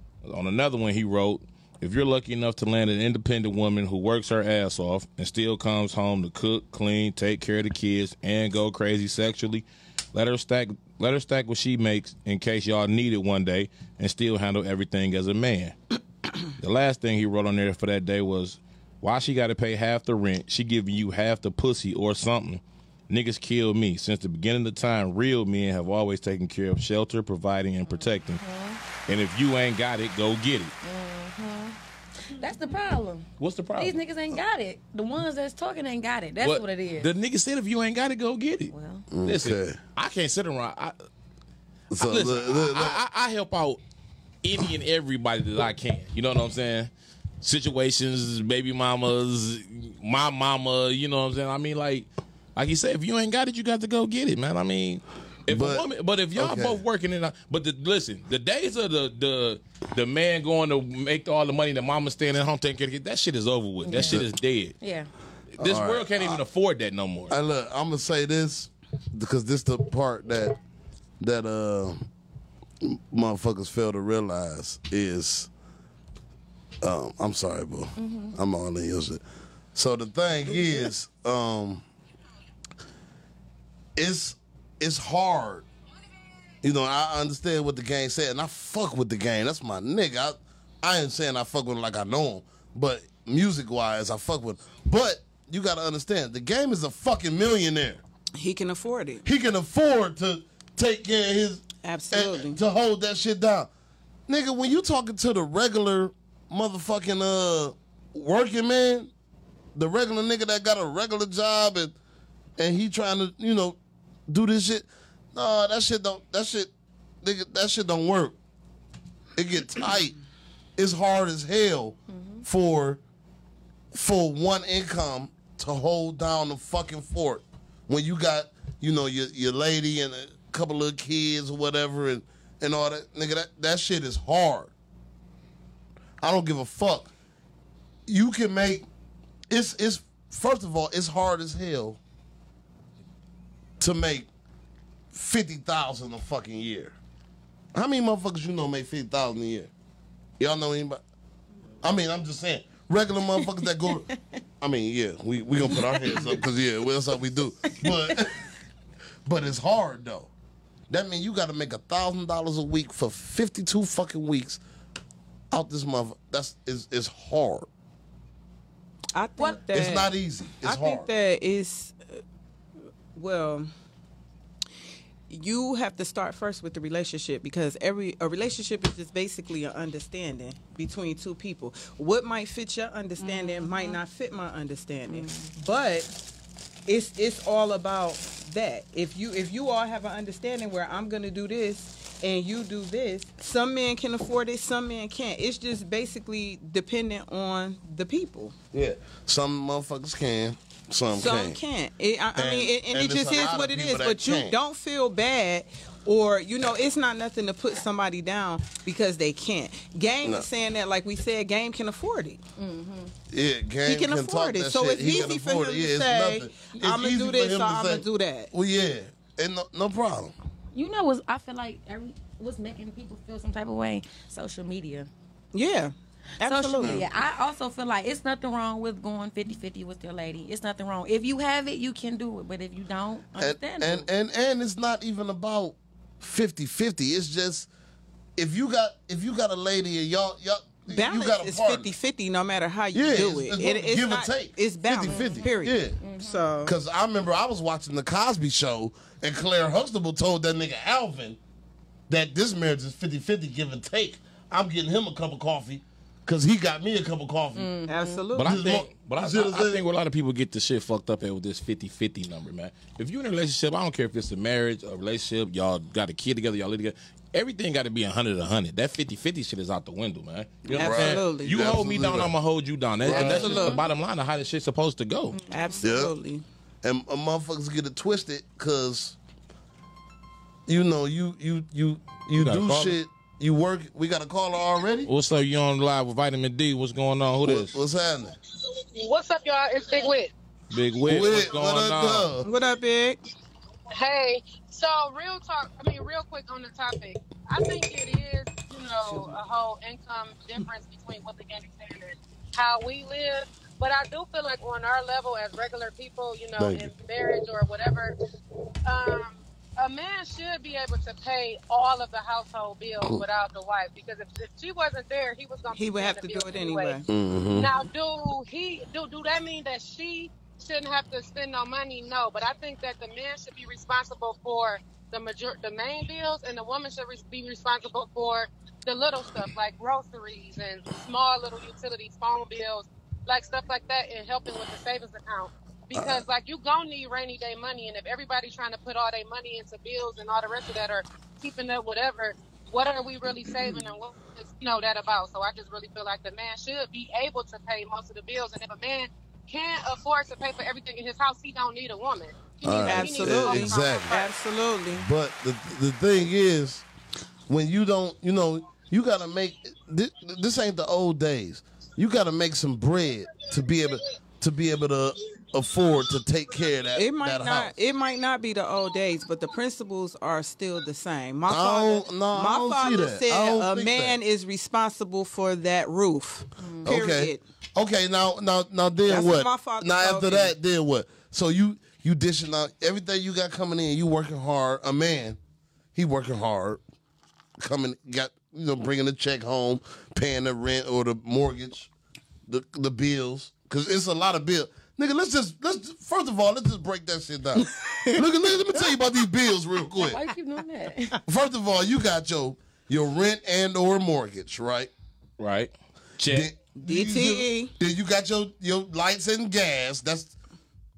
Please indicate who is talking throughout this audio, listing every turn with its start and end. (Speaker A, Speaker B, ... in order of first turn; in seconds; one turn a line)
Speaker A: 0.2-15.8
Speaker A: 16.5-28.4
Speaker B: 27.9-28.8
Speaker A: 29.1-30.7
Speaker B: 30.8-31.8
Speaker B: 32.4-37.1
Speaker A: 33.4-34.0
Speaker A: 36.4-41.0
Speaker B: 38.7-39.1
Speaker C: 39.1-39.8
Speaker C: 41.9-43.0
Speaker A: 42.0-43.8
Speaker A: 44.4-46.9
Speaker A: 47.4-64.8
Speaker C: 55.5-56.8
Speaker B: 63.8-64.2
Speaker C: 64.0-64.3
Speaker B: 64.8-65.1
Speaker A: 65.6-67.3
Speaker C: 65.6-66.4
Speaker C: 67.3-70.6
Speaker C: 71.2-72.0
Speaker C: 72.8-75.5
Speaker C: 76.8-79.2
Speaker B: 78.0-78.4
Speaker C: 79.8-81.8
Speaker C: 84.0-85.7
Speaker C: 86.6-98.0
Speaker D: 98.4-99.2
Speaker C: 99.2-103.7
Speaker D: 101.8-102.6
Speaker C: 104.3-109.1
Speaker C: 109.8-112.0
Speaker C: 112.6-113.8
Speaker C: 114.3-116.7
Speaker C: 117.2-118.4
Speaker C: 119.4-120.2
Speaker C: 120.8-123.0
Speaker B: 122.1-122.4
Speaker C: 123.9-134.7
Speaker C: 136.2-137.1
Speaker C: 138.1-138.9
Speaker C: 139.5-142.0
Speaker C: 143.8-144.3
Speaker C: 145.1-147.0
Speaker C: 147.7-149.7
Speaker C: 150.4-151.0
Speaker C: 151.8-154.1
Speaker B: 153.4-154.2
Speaker C: 154.6-158.4
Speaker B: 155.7-156.2
Speaker B: 157.7-158.2
Speaker C: 159.2-160.3
Speaker C: 160.9-164.6
Speaker C: 165.5-167.7
Speaker D: 169.2-172.2
Speaker C: 169.7-171.1
Speaker D: 173.2-173.7
Speaker D: 175.3-186.2
Speaker B: 183.2-184.0
Speaker B: 185.1-185.5
Speaker D: 186.9-198.6
Speaker C: 198.7-201.6
Speaker D: 201.1-212.4
Speaker C: 202.3-204.6
Speaker B: 212.6-213.1
Speaker C: 213.3-220.3
Speaker D: 213.8-218.5
Speaker B: 220.7-225.1
Speaker D: 225.5-227.0
Speaker B: 226.4-234.1
Speaker C: 226.8-227.1
Speaker C: 233.3-237.7
Speaker C: 238.4-241.9
Speaker D: 240.9-246.8
Speaker C: 242.9-246.0
Speaker B: 245.0-246.4
Speaker C: 246.7-251.4
Speaker C: 252.1-257.8
Speaker B: 257.6-258.2
Speaker D: 257.9-258.9
Speaker A: 258.4-275.4
Speaker C: 258.4-259.8
Speaker C: 270.7-272.3
Speaker D: 270.7-271.6
Speaker C: 273.0-273.6
Speaker D: 273.1-273.8
Speaker B: 273.4-273.9
Speaker B: 275.3-275.9
Speaker D: 275.5-276.4
Speaker C: 275.8-276.1
Speaker C: 276.8-279.2
Speaker C: 280.7-285.1
Speaker A: 282.4-283.0
Speaker A: 285.1-287.8
Speaker C: 287.4-288.4
Speaker E: 288.8-290.3
Speaker A: 290.7-292.3
Speaker C: 291.0-292.5
Speaker D: 292.4-293.2
Speaker E: 293.9-308.2
Speaker C: 306.6-306.9
Speaker E: 308.9-354.3
Speaker D: 315.8-317.1
Speaker C: 317.1-317.7
Speaker C: 335.9-336.2
Speaker C: 352.6-354.2
Speaker D: 352.7-355.1
Speaker C: 354.9-356.9
Speaker C: 357.5-367.7
Speaker D: 366.9-377.4
Speaker C: 371.5-374.2
Speaker B: 376.6-376.9
Speaker C: 376.8-385.4
Speaker D: 379.1-380.6
Speaker C: 385.9-386.8
Speaker C: 387.6-391.9
Speaker C: 392.5-400.2
Speaker D: 397.6-398.3
Speaker B: 400.0-401.2
Speaker C: 401.3-404.9
Speaker A: 405.4-406.5
Speaker C: 406.3-410.3
Speaker D: 406.8-407.7